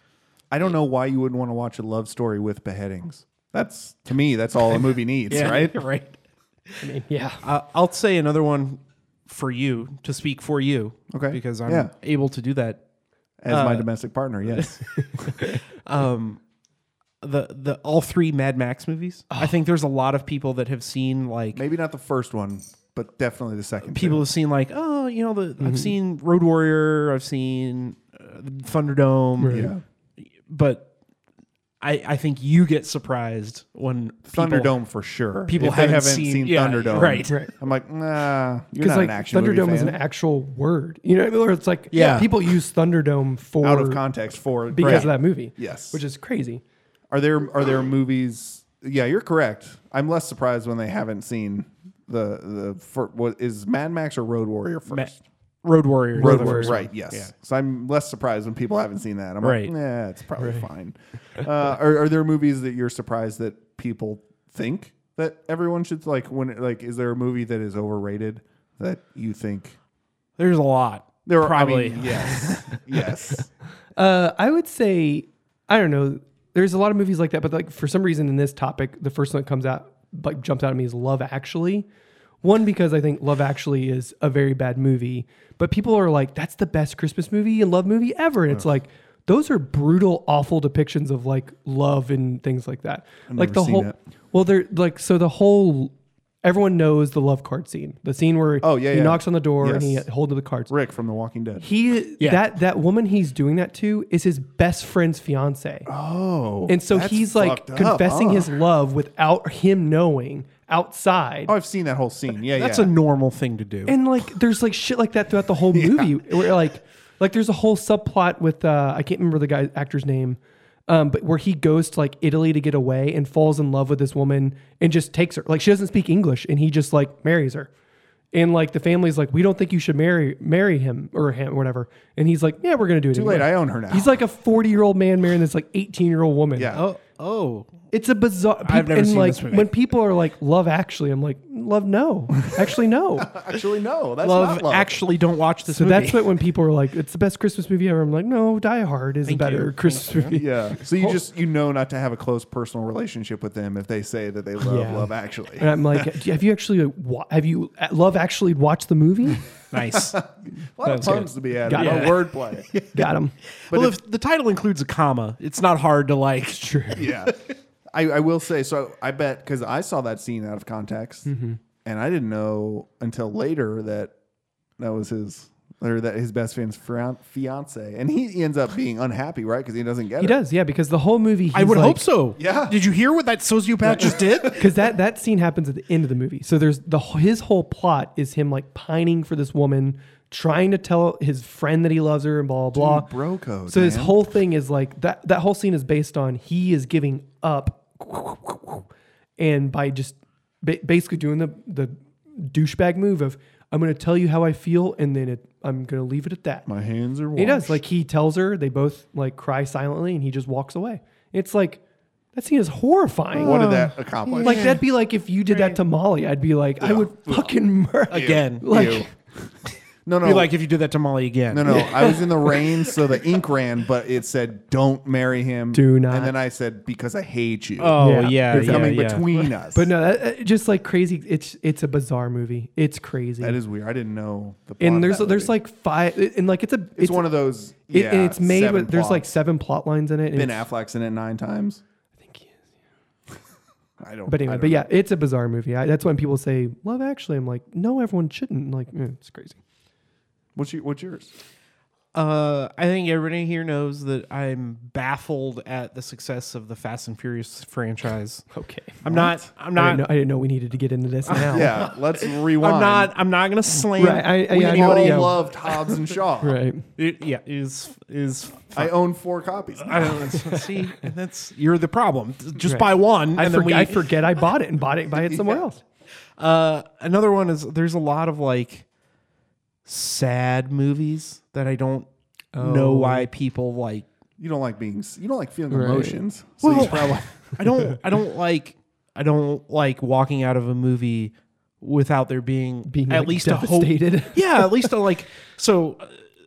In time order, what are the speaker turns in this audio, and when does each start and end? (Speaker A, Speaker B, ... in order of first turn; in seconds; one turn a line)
Speaker A: 0.5-5.8
Speaker B: 5.3-6.9
Speaker C: 6.8-7.4
Speaker B: 7.4-12.8
Speaker A: 11.1-11.9
Speaker A: 13.4-14.9
Speaker B: 13.5-13.9
Speaker B: 14.5-16.4
Speaker B: 17.2-21.6
Speaker A: 21.5-24.2
Speaker B: 23.9-29.7
Speaker C: 25.6-25.9
Speaker C: 29.4-29.7
Speaker A: 29.5-29.8
Speaker B: 30.4-30.9
Speaker B: 31.8-34.7
Speaker A: 34.3-40.0
Speaker B: 35.5-37.4
Speaker C: 37.2-37.5
Speaker C: 38.8-44.0
Speaker B: 41.9-42.4
Speaker A: 43.6-46.0
Speaker C: 44.7-46.6
Speaker B: 44.8-45.1
Speaker A: 47.1-55.2
Speaker B: 55.6-57.3
Speaker C: 56.1-56.7
Speaker A: 56.2-69.8
Speaker B: 59.4-59.7
Speaker C: 60.4-60.6
Speaker B: 70.4-72.8
Speaker A: 71.2-73.5
Speaker C: 74.0-81.9
Speaker C: 82.4-100.7
Speaker A: 93.3-94.0
Speaker A: 98.6-100.0
Speaker A: 100.7-101.6
Speaker C: 101.6-105.9
Speaker A: 105.8-108.5
Speaker C: 106.7-111.5
Speaker A: 111.5-112.9
Speaker B: 112.5-114.0
Speaker C: 113.9-127.7
Speaker A: 115.7-116.3
Speaker C: 128.3-136.8
Speaker A: 133.1-134.2
Speaker A: 136.6-136.8
Speaker B: 136.7-137.7
Speaker C: 137.9-143.3
Speaker B: 138.6-139.7
Speaker A: 143.2-145.0
Speaker B: 144.2-146.3
Speaker C: 145.7-151.2
Speaker B: 149.2-150.3
Speaker A: 150.3-156.2
Speaker C: 154.6-159.5
Speaker B: 159.7-160.2
Speaker A: 159.9-162.7
Speaker B: 160.8-163.1
Speaker C: 160.9-161.1
Speaker C: 161.6-162.2
Speaker C: 162.9-163.3
Speaker B: 163.6-167.3
Speaker A: 163.7-164.0
Speaker C: 166.6-167.0
Speaker A: 166.9-167.4
Speaker A: 167.9-171.3
Speaker C: 171.2-171.6
Speaker A: 171.8-174.1
Speaker A: 174.8-180.4
Speaker C: 180.2-182.0
Speaker B: 181.5-184.6
Speaker A: 182.4-182.7
Speaker A: 183.8-184.6
Speaker C: 184.5-193.1
Speaker A: 192.7-194.2
Speaker C: 193.7-198.9
Speaker C: 199.4-206.7
Speaker A: 206.7-207.8
Speaker C: 207.3-211.8
Speaker C: 212.3-213.7
Speaker A: 213.3-214.8
Speaker B: 213.3-214.8
Speaker C: 214.4-219.1
Speaker B: 215.5-215.8
Speaker A: 216.8-217.5
Speaker A: 218.1-219.1
Speaker B: 218.1-218.9
Speaker A: 220.1-220.5
Speaker B: 220.2-222.2
Speaker A: 221.5-229.9
Speaker C: 221.7-222.6
Speaker C: 225.7-226.3
Speaker B: 227.8-229.3
Speaker C: 228.0-229.0
Speaker C: 229.7-233.6
Speaker A: 233.4-235.5
Speaker C: 234.8-237.3
Speaker A: 237.0-239.3
Speaker C: 237.9-240.7
Speaker A: 240.3-241.8
Speaker C: 242.2-242.7
Speaker A: 244.0-244.9
Speaker C: 244.3-249.6
Speaker A: 250.6-251.3
Speaker B: 252.1-258.5
Speaker C: 258.5-259.0
Speaker B: 259.0-260.1
Speaker A: 259.0-259.4
Speaker C: 259.7-261.8
Speaker B: 261.3-266.0
Speaker A: 261.5-263.1
Speaker C: 264.0-265.4
Speaker A: 264.5-266.6
Speaker C: 266.4-266.8
Speaker B: 267.0-268.9
Speaker A: 268.7-270.4
Speaker B: 269.8-274.2
Speaker C: 272.6-275.8
Speaker A: 275.1-275.7
Speaker B: 276.4-278.9
Speaker B: 279.9-284.1
Speaker C: 282.5-283.3
Speaker A: 284.4-287.6
Speaker C: 285.7-286.2
Speaker B: 286.6-296.2
Speaker C: 292.9-294.9